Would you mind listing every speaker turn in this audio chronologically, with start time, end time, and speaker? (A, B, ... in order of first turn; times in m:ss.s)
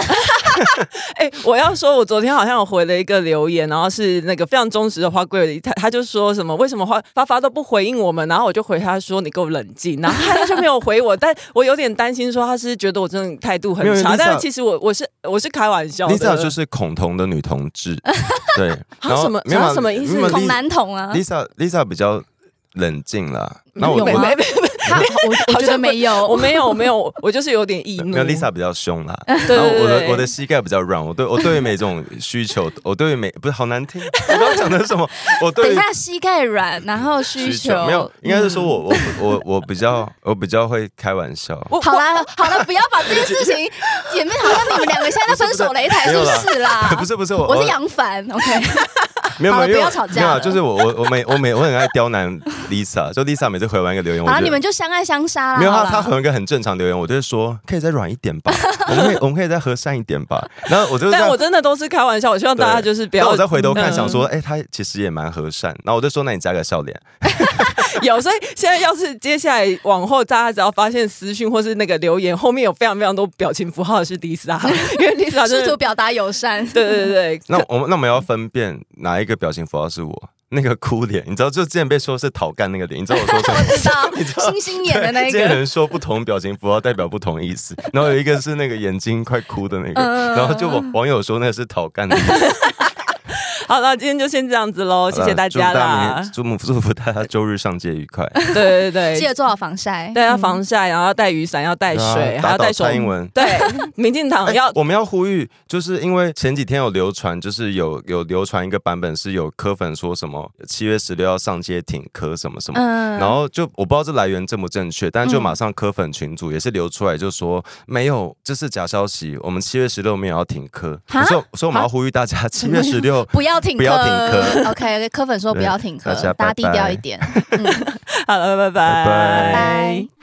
0:00.2-0:16.5 A
0:13.8-0:14.5 B
0:16.1-0:24.4 B
0:19.0-0:20.5 A
0:20.2-0:21.2 C
0:23.8-0:26.8 C
0:23.8-0:28.5 A
0:28.0-0:35.8 B
0:29.5-0:30.3 A
0:34.2-0:34.6 C
0:35.5-0:39.1 C
0:37.4-0:41.8 B
0:41.7-0:42.0 A
0:41.8-0:50.6 C
0:42.4-0:47.8 B
0:49.4-0:54.6 B
0:54.2-0:56.1 C
0:55.6-1:01.4 B
1:01.1-1:04.2 A
1:02.6-1:07.9 B
1:03.6-1:04.2 C
1:07.5-1:15.8 A
1:14.7-1:17.1 C
1:16.7-1:17.6 A
1:17.5-1:32.5 B
1:23.1-1:25.6 C
1:29.9-1:30.9 C
1:32.3-1:36.3 A
1:35.1-1:38.4 B
1:38.5-1:39.3 A
1:39.1-1:40.6 C
1:40.1-1:44.8 A
1:41.9-1:43.4 B
1:43.4-1:43.8 C
1:44.4-2:04.7 B
1:52.7-1:53.4 C
1:55.2-1:55.6 C
2:01.1-2:01.9 C
2:02.6-2:07.8 C
2:05.5-2:07.6 B
2:07.8-2:10.1 A
2:08.8-2:09.7 B
2:09.5-2:10.1 C